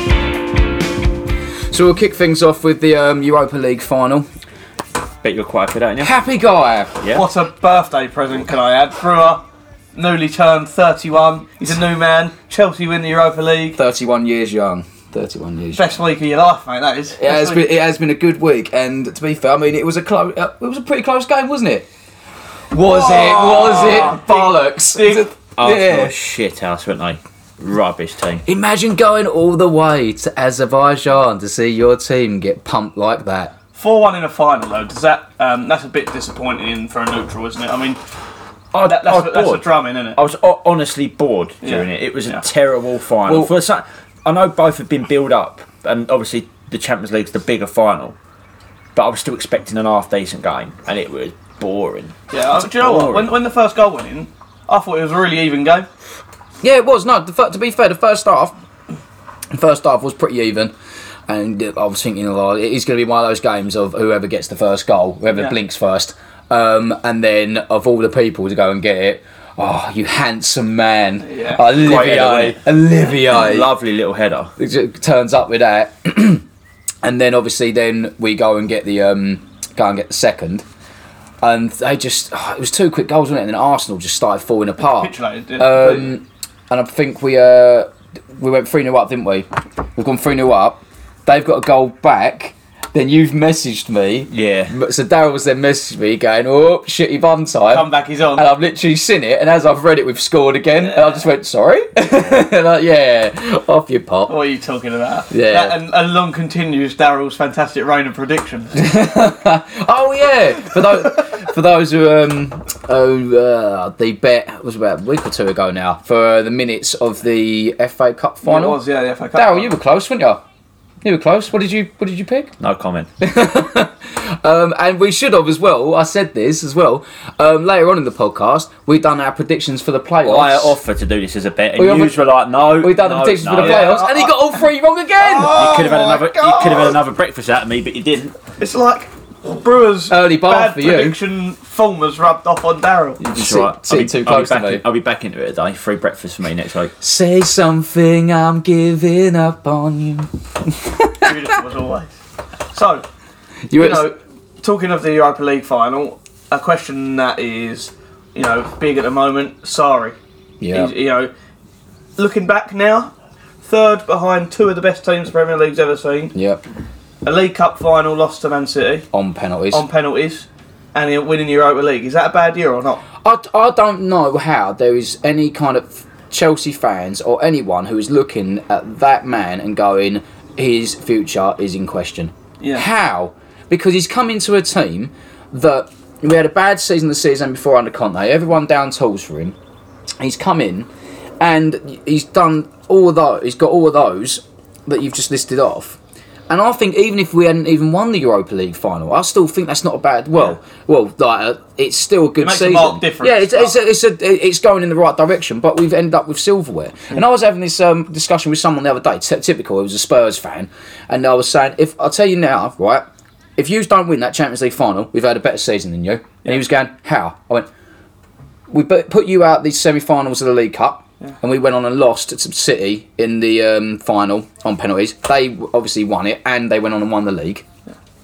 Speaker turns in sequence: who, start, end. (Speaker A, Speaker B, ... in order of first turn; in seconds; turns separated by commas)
Speaker A: 1.7-4.3, Speaker B: 5.2-6.1, Speaker A: 6.0-7.0, Speaker C: 7.1-9.4, Speaker C: 9.9-13.8, Speaker A: 13.8-15.9, Speaker C: 15.7-17.7, Speaker A: 17.2-21.9, Speaker A: 22.7-26.1, Speaker C: 22.8-25.3, Speaker B: 25.6-28.4, Speaker A: 28.4-33.5, Speaker C: 33.7-38.0, Speaker B: 38.7-48.2, Speaker C: 38.9-40.2, Speaker C: 41.6-42.5, Speaker A: 43.3-43.5, Speaker B: 49.0-52.2, Speaker C: 52.3-55.9, Speaker A: 52.7-53.3, Speaker A: 56.6-58.5, Speaker A: 59.5-60.7, Speaker A: 61.3-73.7, Speaker C: 71.2-71.7, Speaker B: 71.7-72.6, Speaker B: 73.2-74.5, Speaker A: 74.6-76.4, Speaker A: 77.0-80.7, Speaker A: 81.4-104.4, Speaker C: 84.8-86.1, Speaker B: 94.3-94.7, Speaker C: 97.7-98.5, Speaker C: 100.8-101.2, Speaker C: 104.3-108.8, Speaker A: 105.3-105.8, Speaker A: 108.7-118.8, Speaker C: 118.5-119.7, Speaker A: 119.3-120.4, Speaker A: 121.0-122.5, Speaker B: 122.6-123.1, Speaker A: 123.2-130.8, Speaker B: 130.2-134.0, Speaker A: 131.8-135.7, Speaker C: 133.6-134.5, Speaker C: 135.2-137.0, Speaker B: 135.5-138.3, Speaker C: 138.6-143.2, Speaker A: 140.1-141.2, Speaker A: 143.2-144.8, Speaker B: 143.2-146.9, Speaker A: 147.0-151.3, Speaker C: 151.2-152.1, Speaker C: 152.7-153.1, Speaker A: 153.7-154.1, Speaker C: 153.8-160.2, Speaker A: 160.6-160.9, Speaker C: 160.7-161.3, Speaker C: 162.2-166.3, Speaker A: 166.3-166.6, Speaker C: 167.2-169.1, Speaker A: 169.1-169.9, Speaker C: 169.7-173.0, Speaker A: 173.2-189.6, Speaker C: 182.6-182.9, Speaker A: 190.2-190.9, Speaker A: 191.4-196.0, Speaker A: 196.5-213.1, Speaker C: 202.4-203.8, Speaker A: 213.6-217.7, Speaker A: 218.7-227.7